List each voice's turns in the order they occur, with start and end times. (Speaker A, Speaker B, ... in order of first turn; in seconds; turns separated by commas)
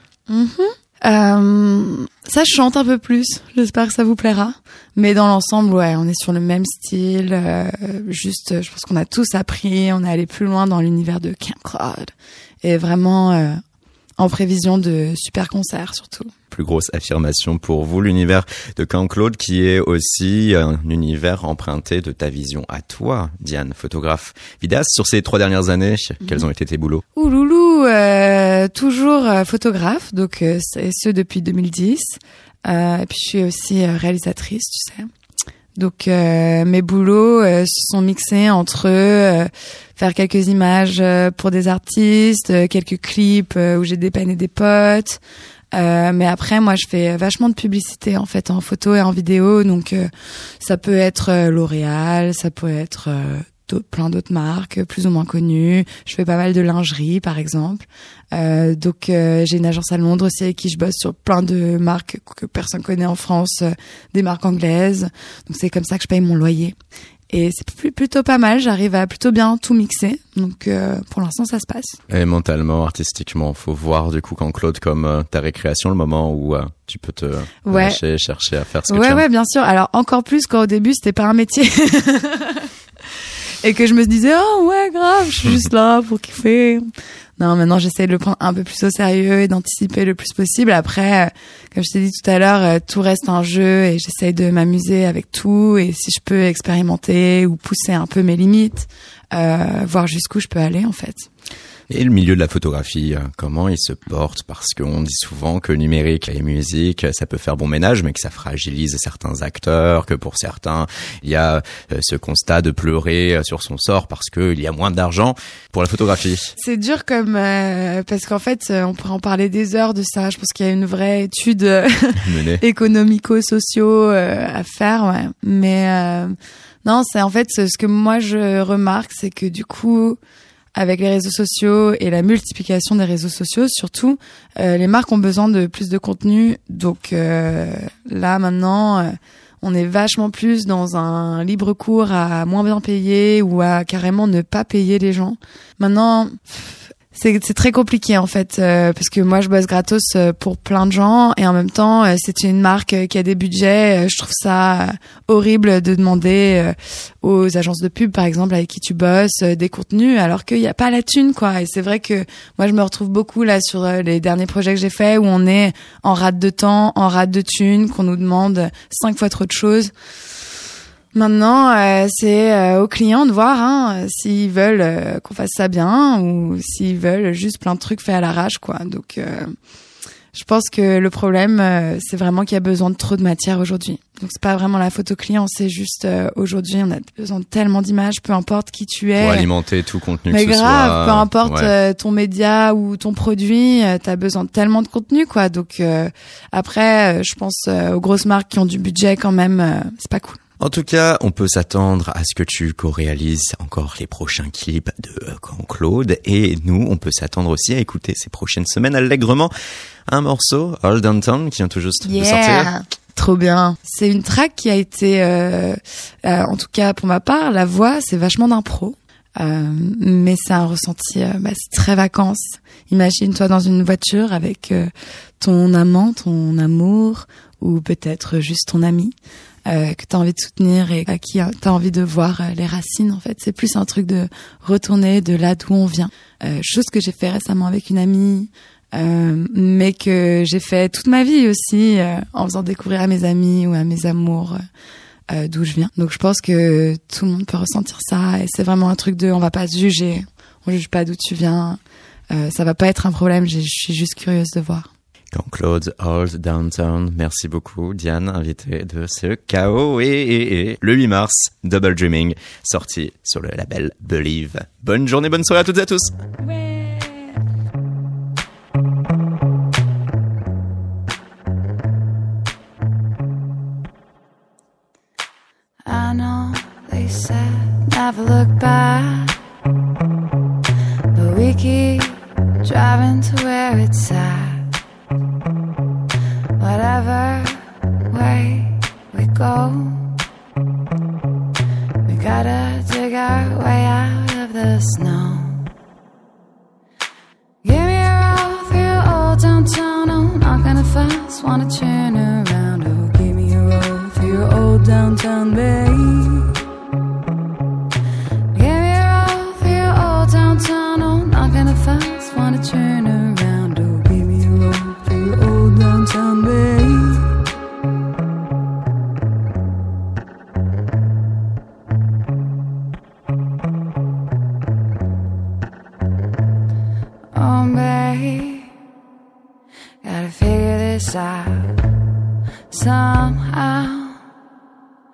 Speaker A: 0.3-13.6, Speaker A: 14.2-16.3, Speaker B: 16.5-27.0, Speaker A: 27.1-35.1, Speaker A: 35.7-45.2, Speaker A: 45.7-50.1, Speaker A: 50.6-66.7, Speaker A: 67.3-72.0, Speaker B: 72.1-79.2, Speaker A: 77.7-78.0, Speaker A: 78.9-82.7, Speaker A: 83.6-101.3, Speaker B: 101.9-116.5, Speaker A: 116.6-130.2, Speaker B: 122.2-122.6, Speaker A: 130.7-169.9, Speaker A: 171.1-179.5, Speaker A: 180.3-189.5, Speaker B: 189.2-191.7, Speaker A: 190.3-200.4, Speaker B: 200.6-209.5, Speaker B: 210.1-212.7, Speaker A: 212.0-224.9, Speaker A: 225.4-229.1, Speaker A: 229.7-244.6, Speaker A: 245.3-251.8, Speaker A: 252.3-254.9, Speaker B: 255.3-266.1, Speaker C: 266.6-267.1, Speaker C: 275.8-279.3, Speaker C: 281.1-284.7, Speaker C: 286.6-290.1, Speaker C: 292.1-295.6, Speaker C: 297.6-306.6, Speaker C: 308.5-317.3, Speaker C: 327.3-328.7, Speaker C: 330.0-331.7, Speaker C: 332.7-334.2